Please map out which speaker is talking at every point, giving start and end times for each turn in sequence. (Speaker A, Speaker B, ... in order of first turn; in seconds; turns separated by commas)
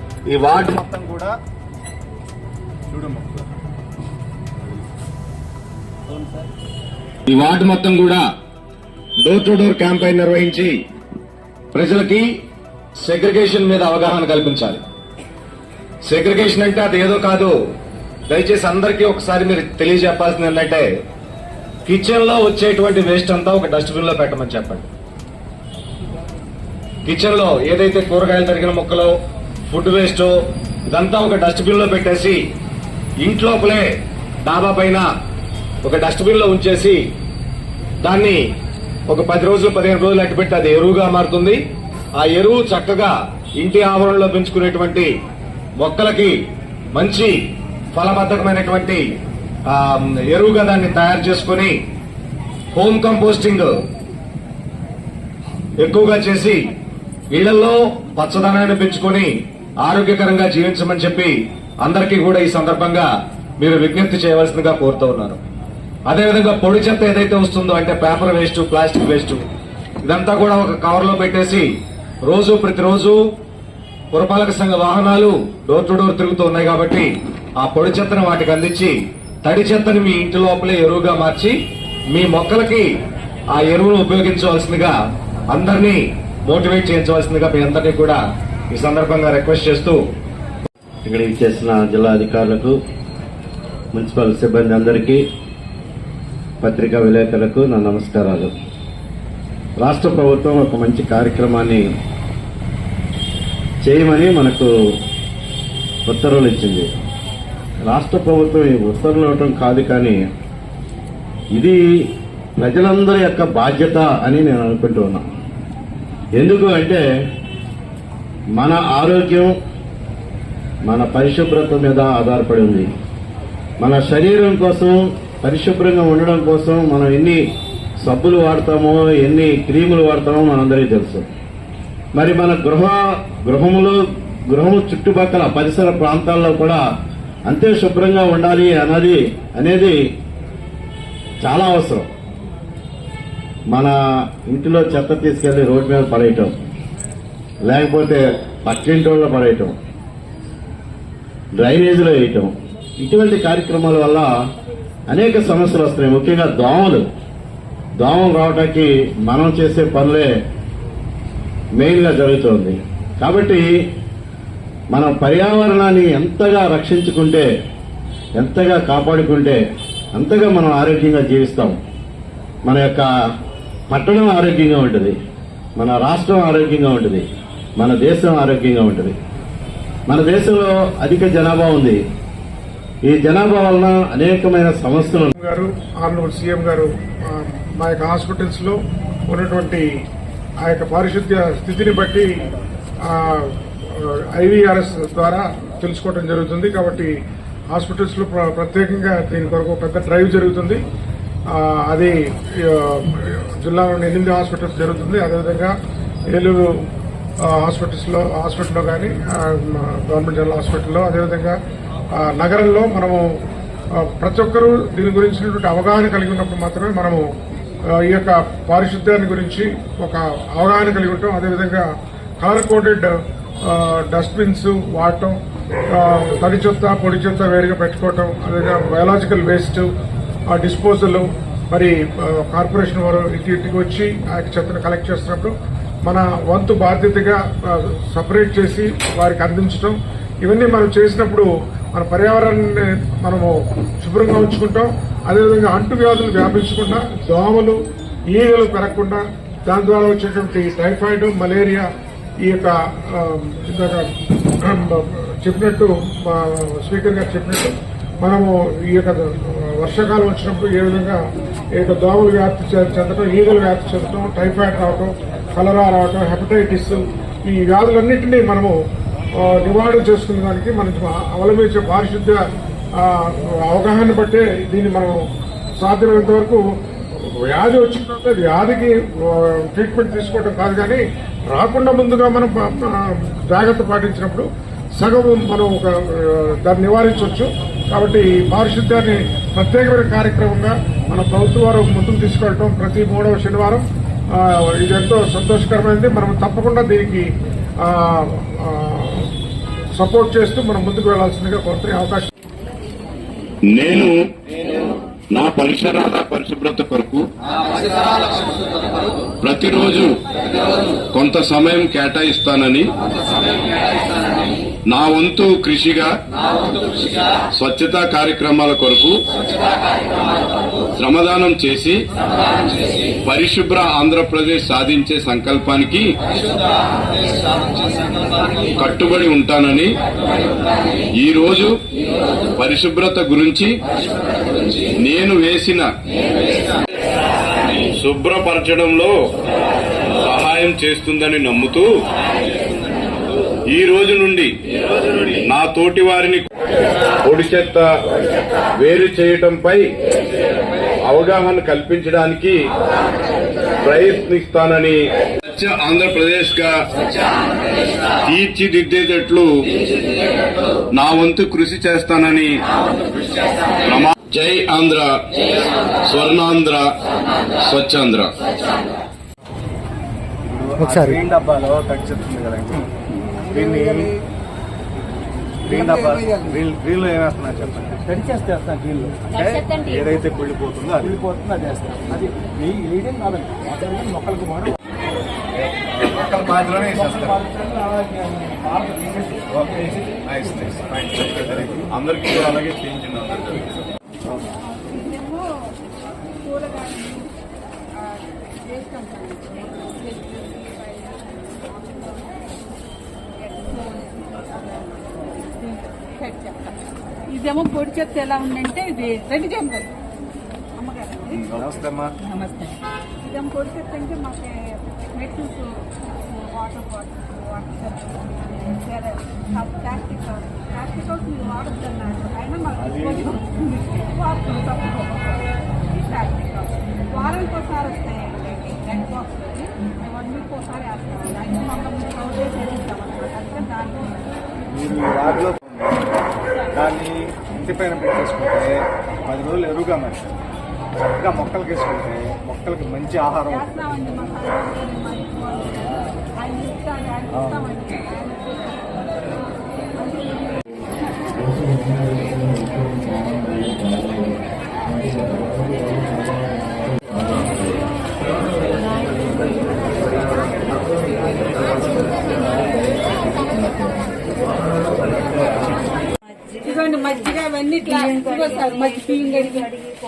Speaker A: 0.3-0.8, Speaker B: 0.7-1.3, Speaker B: 2.9-3.5, Speaker B: 6.1-6.4, Speaker A: 7.3-8.2, Speaker A: 9.2-10.8, Speaker A: 11.7-12.3, Speaker A: 13.0-14.8, Speaker A: 16.1-17.6, Speaker A: 18.3-20.9, Speaker A: 21.9-24.9, Speaker A: 27.1-29.1, Speaker A: 29.7-30.3, Speaker A: 30.9-32.4, Speaker A: 33.2-33.9, Speaker A: 34.4-35.1, Speaker A: 35.8-37.0, Speaker A: 38.0-38.4, Speaker A: 39.1-41.6, Speaker A: 42.2-45.1, Speaker A: 45.8-46.3, Speaker A: 46.9-47.4, Speaker A: 47.9-49.0, Speaker A: 49.7-51.8, Speaker A: 52.7-53.7, Speaker A: 55.8-56.7, Speaker A: 57.3-59.3, Speaker A: 59.8-65.4, Speaker A: 66.1-69.4, Speaker A: 70.0-71.7, Speaker A: 72.3-73.2, Speaker A: 74.1-77.1, Speaker A: 77.6-81.5, Speaker A: 82.1-82.9, Speaker A: 83.5-85.0, Speaker A: 85.5-88.2, Speaker A: 88.7-90.0, Speaker C: 91.0-92.8, Speaker C: 93.9-95.2, Speaker C: 96.6-98.5, Speaker C: 99.8-101.8, Speaker C: 103.8-104.7, Speaker C: 106.1-106.9, Speaker C: 107.9-110.2, Speaker C: 112.6-115.2, Speaker C: 116.4-117.0, Speaker C: 118.6-119.5, Speaker C: 120.9-122.9, Speaker C: 123.8-127.4, Speaker C: 128.0-131.2, Speaker C: 132.2-134.0, Speaker C: 134.5-136.8, Speaker C: 137.5-140.0, Speaker C: 141.4-142.1, Speaker C: 144.5-146.5, Speaker C: 147.7-149.7, Speaker C: 151.6-154.3, Speaker C: 155.1-157.0, Speaker C: 158.0-160.3, Speaker C: 161.8-163.7, Speaker C: 164.9-167.5, Speaker C: 168.4-169.6, Speaker C: 170.2-171.8, Speaker C: 172.7-173.1, Speaker C: 173.9-175.1, Speaker C: 175.8-177.2, Speaker C: 177.8-179.1, Speaker C: 180.1-182.0, Speaker C: 183.1-185.3, Speaker D: 185.3-188.8, Speaker D: 189.3-189.8, Speaker D: 190.6-192.3, Speaker D: 193.1-197.1, Speaker D: 197.7-200.8, Speaker D: 201.5-205.7, Speaker D: 206.3-206.7, Speaker D: 207.4-211.6, Speaker D: 212.2-213.2, Speaker D: 214.0-217.2, Speaker D: 218.0-221.9, Speaker D: 222.4-223.1, Speaker D: 223.7-225.3, Speaker D: 225.9-229.9, Speaker D: 230.5-235.5, Speaker D: 236.1-243.5, Speaker D: 244.0-247.8, Speaker D: 248.3-251.8, Speaker D: 252.4-254.1, Speaker D: 254.6-261.2, Speaker D: 261.8-268.7, Speaker D: 269.4-272.4, Speaker D: 273.0-275.2, Speaker D: 275.8-276.6, Speaker D: 277.2-283.0, Speaker D: 283.5-284.5, Speaker D: 285.0-297.3, Speaker D: 297.8-299.3, Speaker D: 300.0-302.3, Speaker E: 303.7-304.1, Speaker E: 305.3-307.2, Speaker E: 309.4-310.1, Speaker E: 311.1-312.9, Speaker E: 314.9-316.1, Speaker E: 317.6-319.1, Speaker E: 321.0-322.0, Speaker E: 323.3-326.1, Speaker E: 328.8-329.9, Speaker E: 331.2-331.7, Speaker E: 332.6-333.7, Speaker E: 335.1-335.9, Speaker E: 338.0-339.1, Speaker E: 340.2-341.8, Speaker E: 343.7-344.5, Speaker E: 345.5-346.5, Speaker E: 347.3-347.8, Speaker E: 348.8-349.8, Speaker E: 351.1-352.6, Speaker E: 353.8-356.7, Speaker E: 358.3-359.5, Speaker E: 361.0-362.5, Speaker E: 363.9-365.1, Speaker E: 366.1-366.9, Speaker E: 367.7-368.3, Speaker B: 370.5-372.9, Speaker B: 373.4-374.1, Speaker B: 375.7-384.7, Speaker B: 386.4-390.2, Speaker E: 390.8-393.7, Speaker B: 391.2-391.6, Speaker F: 394.6-395.5, Speaker F: 396.4-397.3, Speaker F: 398.1-402.5, Speaker F: 403.4-406.8, Speaker F: 407.3-409.9, Speaker F: 410.8-411.5, Speaker B: 411.5-412.1, Speaker F: 412.2-425.4, Speaker B: 422.8-423.3, Speaker F: 425.9-434.2, Speaker B: 434.7-435.9, Speaker B: 436.7-440.3, Speaker B: 441.2-443.9, Speaker F: 443.5-445.9, Speaker F: 446.4-449.0, Speaker B: 447.3-447.6, Speaker F: 450.0-451.6, Speaker F: 452.4-452.7, Speaker F: 466.6-469.7